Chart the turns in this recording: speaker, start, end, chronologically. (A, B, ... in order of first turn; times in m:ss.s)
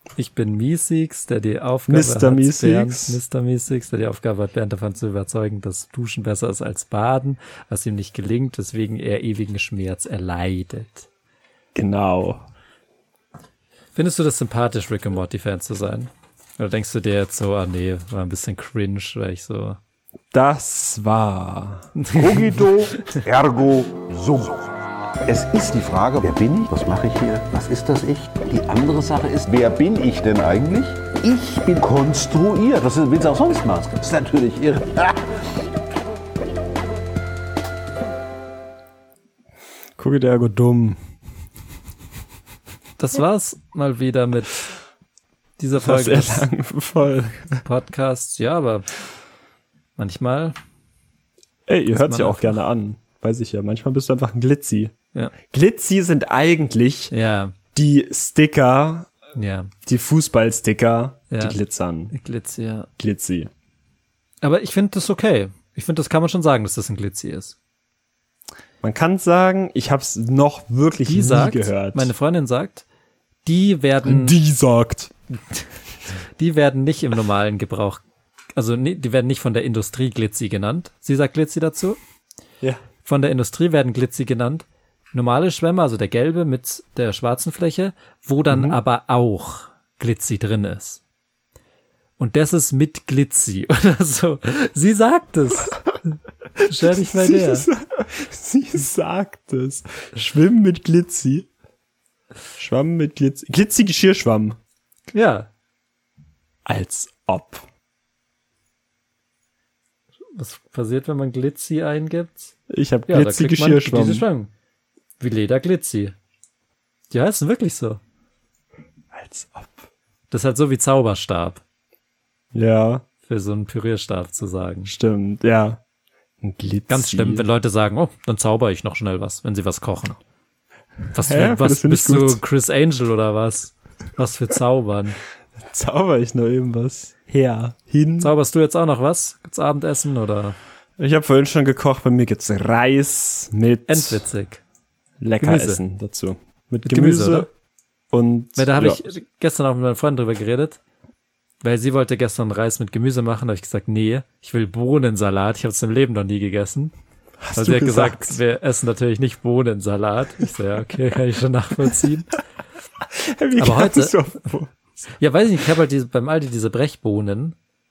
0:00.2-0:11.1 A
0:01.9-0:03.2 B
0:11.7-0:12.4 B
0:13.9-0:19.8 A
0:20.3-0:21.9 B
0:22.0-0:23.2 A
0:22.2-0:24.7 C
0:25.2-0:35.4 C
0:40.0-0:41.0 B
0:43.0-0:44.7 A
0:45.6-0:46.5 A
0:45.8-0:47.6 B
0:47.6-0:48.8 A
0:50.0-0:50.6 A
0:51.7-0:54.9 B
0:51.9-0:52.6 A
0:55.5-0:57.1 B
0:57.1-0:57.5 A
0:57.7-0:59.1 B
0:59.4-0:59.7 A
0:59.8-1:02.1 B
1:01.3-1:01.6 A
1:02.1-1:02.9 A
1:03.0-1:03.5 B
1:04.4-1:07.6 A
1:08.8-1:12.1 B
1:11.0-1:12.8 A
1:13.4-1:14.4 A
1:14.0-1:15.1 B
1:16.4-1:18.0 A
1:18.6-1:22.0 A
1:23.0-1:31.0 A
1:28.5-1:28.8 B
1:32.2-1:37.7 A
1:36.6-1:41.5 B
1:42.6-1:44.6 B
1:45.1-1:45.5 A
1:46.6-1:47.6 B
1:50.4-1:52.6 A
1:52.7-1:54.3 B
1:53.1-1:54.5 A
1:55.2-1:56.1 A
1:57.1-1:58.0 A
1:59.1-1:59.8 B
2:00.3-2:01.6 A
2:02.5-2:03.0 B
2:03.3-2:04.9 A
2:04.8-2:05.8 B
2:06.4-2:07.4 B
2:06.9-2:10.2 A
2:11.1-2:15.2 A
2:11.1-2:12.4 B
2:15.7-2:18.3 B
2:18.2-2:20.6 A
2:21.0-2:24.2 B
2:23.9-2:24.6 A
2:25.2-2:27.5 B
2:25.4-2:25.8 A
2:26.9-2:27.5 A
2:28.1-2:29.1 B
2:28.6-2:30.8 A
2:31.6-2:36.9 A
2:37.4-2:38.4 B
2:37.6-2:42.4 A
2:43.1-2:44.7 B
2:43.6-2:44.2 A
2:45.2-2:47.6 A